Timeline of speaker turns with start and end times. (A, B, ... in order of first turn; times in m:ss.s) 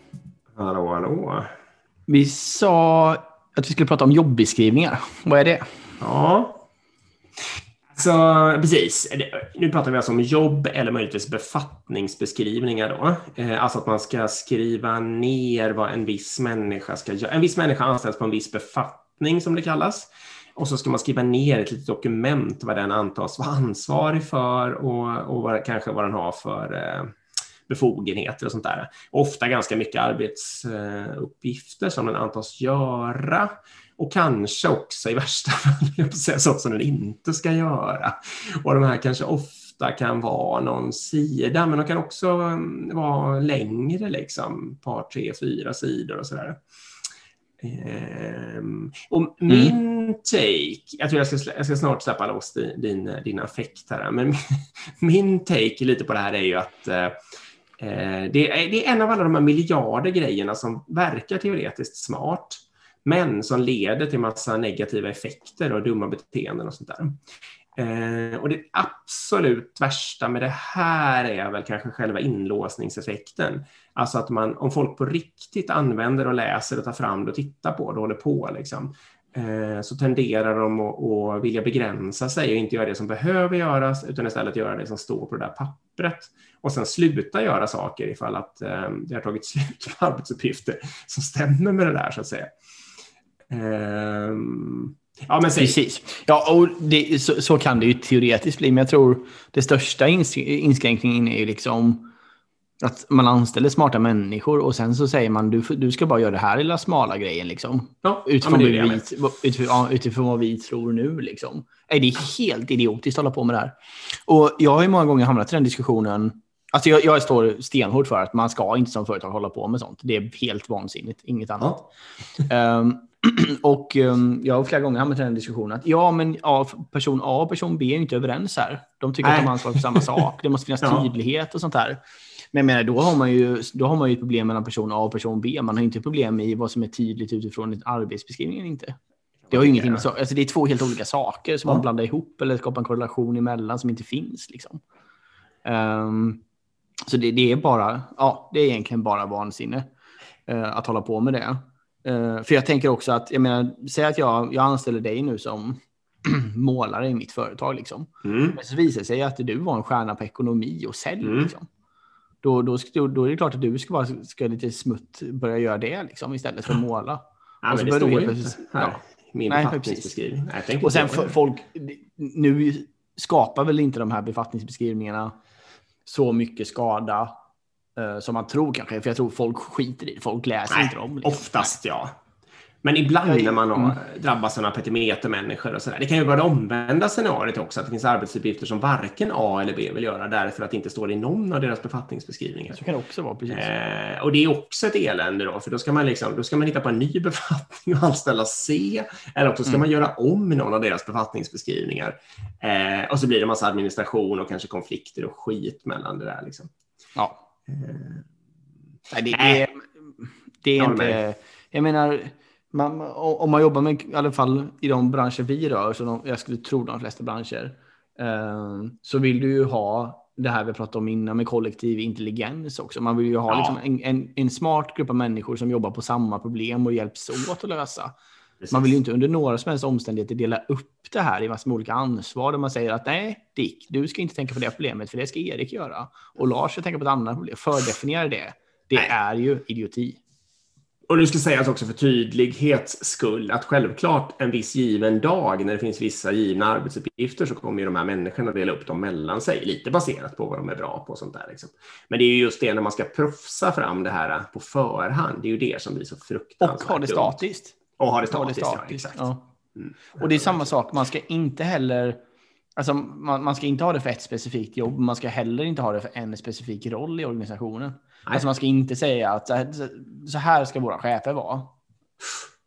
0:00.6-0:01.5 A
0:02.1-0:05.7 B
0:06.0-0:06.7 A
0:07.9-0:27.2 A
0:27.7-0:46.6 A
0:47.6-0:57.2 A
0:57.8-1:07.2 A
1:07.8-1:32.6 A
1:33.5-1:35.8 A
1:35.6-1:42.1 B
1:42.8-1:53.8 B
1:48.0-1:49.0 A
1:54.3-2:01.9 B
2:02.4-2:12.0 B
2:09.2-2:10.2 A
2:12.5-2:19.0 B
2:19.5-2:20.1 A
2:19.5-2:24.8 B
2:25.6-2:26.4 B
2:27.1-2:29.9 B
2:30.5-2:41.7 B
2:38.2-2:38.6 A
2:41.2-2:41.5 A
2:42.4-2:50.2 B
2:47.6-2:51.4 A
2:50.8-2:55.4 B
2:56.1-2:57.3 B
2:58.0-3:01.8 B
3:00.7-3:02.1 A
3:02.8-3:12.8 A
3:03.3-3:04.0 B
3:12.7-3:13.7 B
3:13.5-3:26.7 A
3:27.2-3:27.4 B
3:27.7-3:28.3 A
3:29.1-3:48.2 B
3:29.3-3:29.7 A
3:30.8-3:31.2 A
3:43.5-3:43.8 A
3:48.6-3:49.0 A
3:48.7-4:00.2 B
4:01.1-4:17.4 A
4:16.6-4:19.5 B
4:18.0-4:20.7 A
4:20.2-4:22.2 B
4:22.8-4:31.8 B